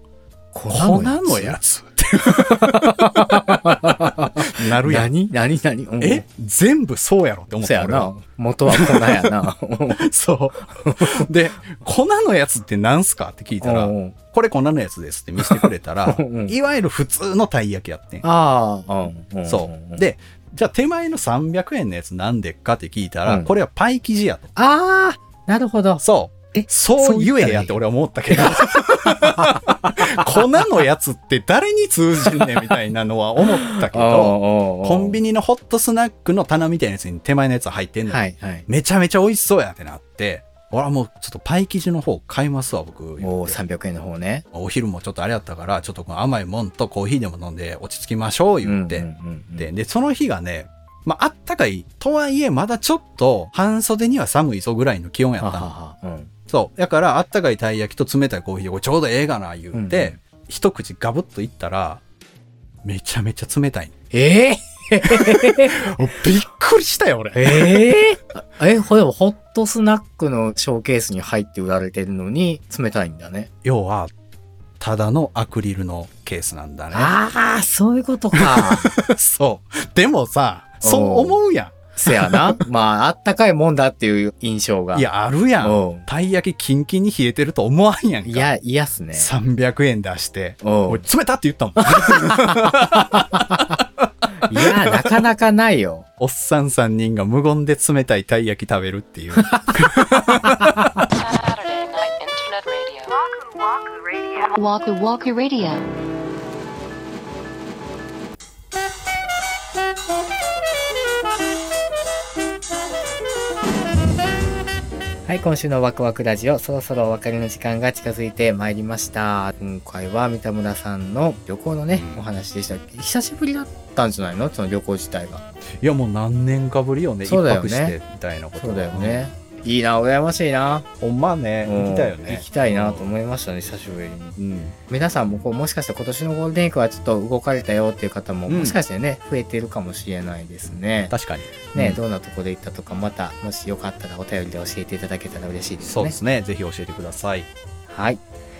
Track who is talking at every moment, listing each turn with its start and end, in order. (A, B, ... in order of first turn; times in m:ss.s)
0:00.5-0:01.6 A
0:00.7-0:03.1 B
0:02.4-0:06.2 A
0:04.4-0:05.1 B
0:06.0-0:08.1 B
0:07.6-0:10.0 A
0:08.7-0:09.2 B
0:10.0-0:18.2 B
0:10.8-0:11.1 A
0:13.6-0:14.2 A
0:15.4-0:16.5 A
0:18.2-0:20.0 A
0:19.4-0:24.5 B
0:24.6-0:27.7 A
0:26.0-0:43.6 B
0:28.3-0:30.2 A
0:32.3-0:32.7 A
0:33.6-0:35.2 A
0:38.1-0:38.7 A
0:43.2-0:44.4 A
0:44.5-0:49.1 B
0:48.6-0:49.7 A
0:49.6-0:55.7 B
0:55.4-0:56.3 A
0:56.5-1:02.0 B
0:59.7-1:00.2 A
1:02.8-1:03.9 B
1:04.1-1:05.8 A
1:05.0-1:07.9 B
1:07.4-1:13.5 A
1:13.6-1:14.1 B
1:14.8-1:17.1 B
1:16.9-1:18.9 A
1:18.4-1:22.6 B
1:20.8-1:21.4 A
1:22.0-1:25.1 A
1:24.9-1:28.5 B
1:25.6-1:26.1 A
1:28.2-1:29.3 A
1:29.1-1:34.0 B
1:30.6-1:31.0 A
1:31.8-1:33.6 A
1:34.4-1:36.0 A
1:36.2-1:40.9 B
1:39.4-1:41.0 A
1:41.1-1:43.2 C
1:44.3-1:45.8 C
1:55.2-2:05.4 A
2:01.9-2:02.2 B
2:05.8-2:09.2 B
2:07.2-2:08.0 A
2:08.6-2:10.8 A
2:11.0-2:13.1 B
2:11.6-2:21.1 A
2:14.4-2:14.7 B
2:18.5-2:18.8 B
2:21.1-2:22.0 B
2:21.7-2:26.2 A
2:25.8-2:27.5 B
2:27.9-2:28.2 A